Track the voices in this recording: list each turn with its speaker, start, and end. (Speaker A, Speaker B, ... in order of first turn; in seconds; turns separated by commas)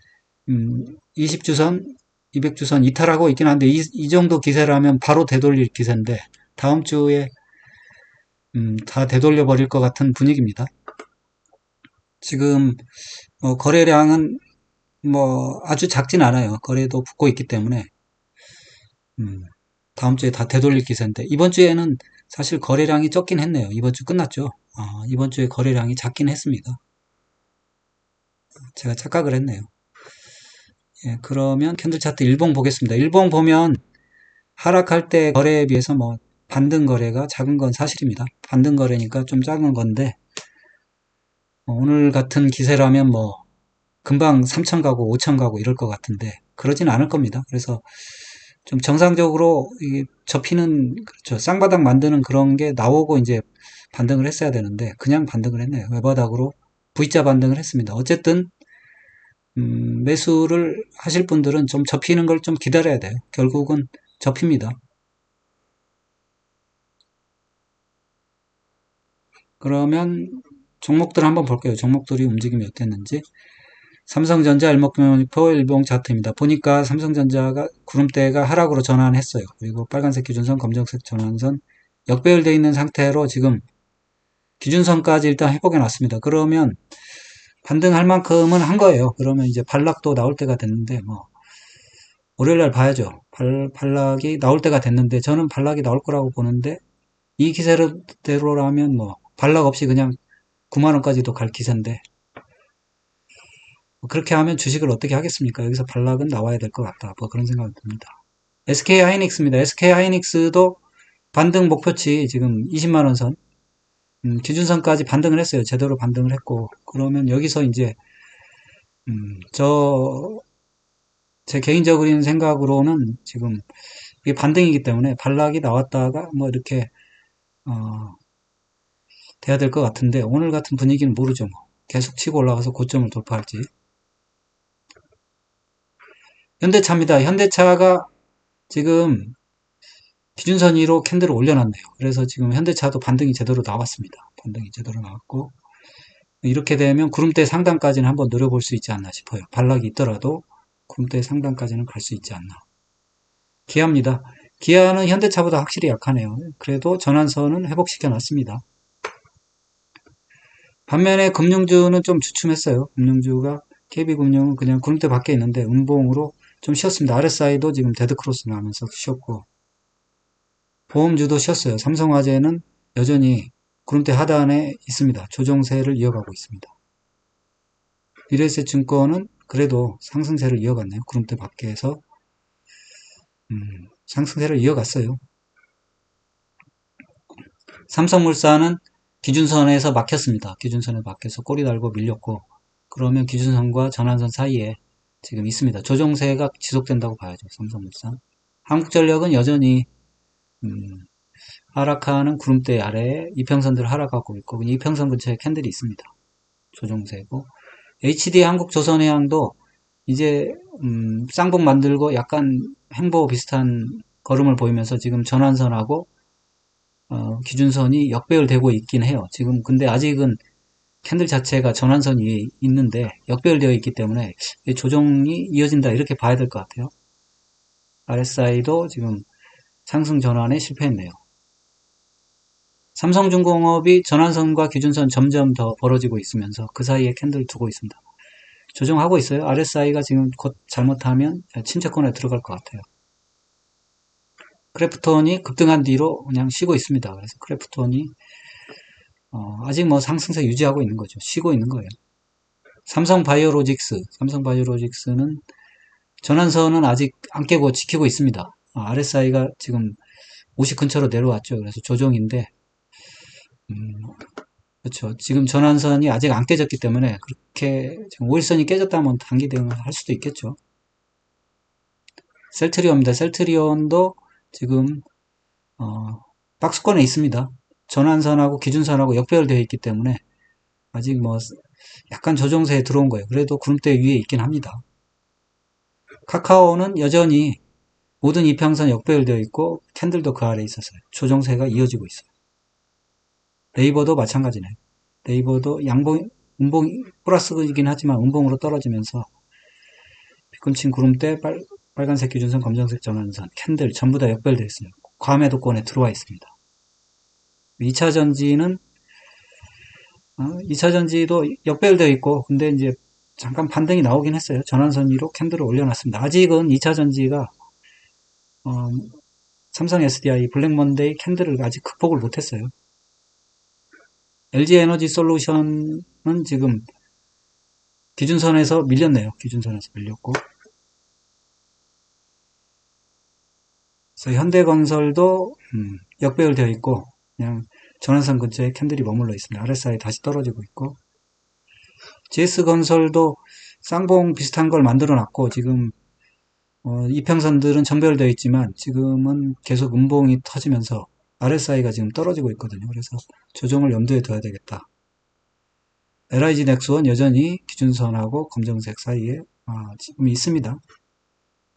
Speaker A: 0.5-7.3, Speaker A: 8.5-10.7, Speaker A: 12.2-12.9, Speaker A: 13.4-14.4, Speaker A: 15.0-17.9, Speaker A: 19.2-26.8, Speaker A: 28.7-29.7, Speaker A: 31.0-33.8, Speaker A: 34.6-40.2, Speaker A: 41.7-43.4, Speaker A: 44.0-47.9, Speaker A: 48.7-58.5, Speaker A: 59.5-64.8, Speaker A: 69.6-73.3, Speaker A: 74.1-83.7, Speaker A: 84.6-86.8, Speaker A: 87.6-91.3, Speaker A: 92.4-96.8, Speaker A: 97.4-100.2, Speaker A: 100.7-102.0, Speaker A: 104.0-110.8, Speaker A: 111.3-113.4, Speaker A: 114.2-118.0, Speaker A: 119.1-120.4, Speaker A: 121.5-123.7, Speaker A: 124.2-126.9, Speaker A: 127.7-128.2, Speaker A: 129.4-133.7, Speaker A: 136.6-138.1, Speaker A: 138.7-139.4, Speaker A: 140.4-145.6, Speaker A: 146.4-152.6, Speaker A: 153.7-158.6, Speaker A: 160.9-169.5, Speaker A: 170.9-176.7, Speaker A: 178.3-182.0, Speaker A: 183.5-185.2, Speaker A: 187.9-199.9, Speaker A: 200.6-201.1, Speaker A: 201.7-206.1, Speaker A: 206.7-207.5, Speaker A: 208.0-209.6, Speaker A: 210.1-216.1, Speaker A: 217.1-220.4, Speaker A: 221.0-226.9, Speaker A: 228.1-229.3, Speaker A: 229.9-231.2, Speaker A: 232.9-238.0, Speaker A: 238.7-242.9, Speaker A: 244.7-248.1, Speaker A: 249.3-251.9, Speaker A: 252.9-255.4, Speaker A: 256.2-260.0, Speaker A: 260.6-262.5, Speaker A: 263.7-264.2, Speaker A: 264.8-270.6, Speaker A: 272.5-275.1, Speaker A: 275.8-280.2, Speaker A: 280.9-284.8, Speaker A: 286.3-287.6, Speaker A: 288.2-292.3, Speaker A: 293.8-299.3, Speaker A: 300.5-306.5, Speaker A: 307.8-308.8, Speaker A: 310.4-317.5, Speaker A: 318.6-319.2, Speaker A: 319.7-322.7, Speaker A: 324.5-326.9, Speaker A: 328.2-330.4, Speaker A: 334.2-341.0, Speaker A: 342.3-345.9, Speaker A: 346.8-354.9, Speaker A: 356.3-360.8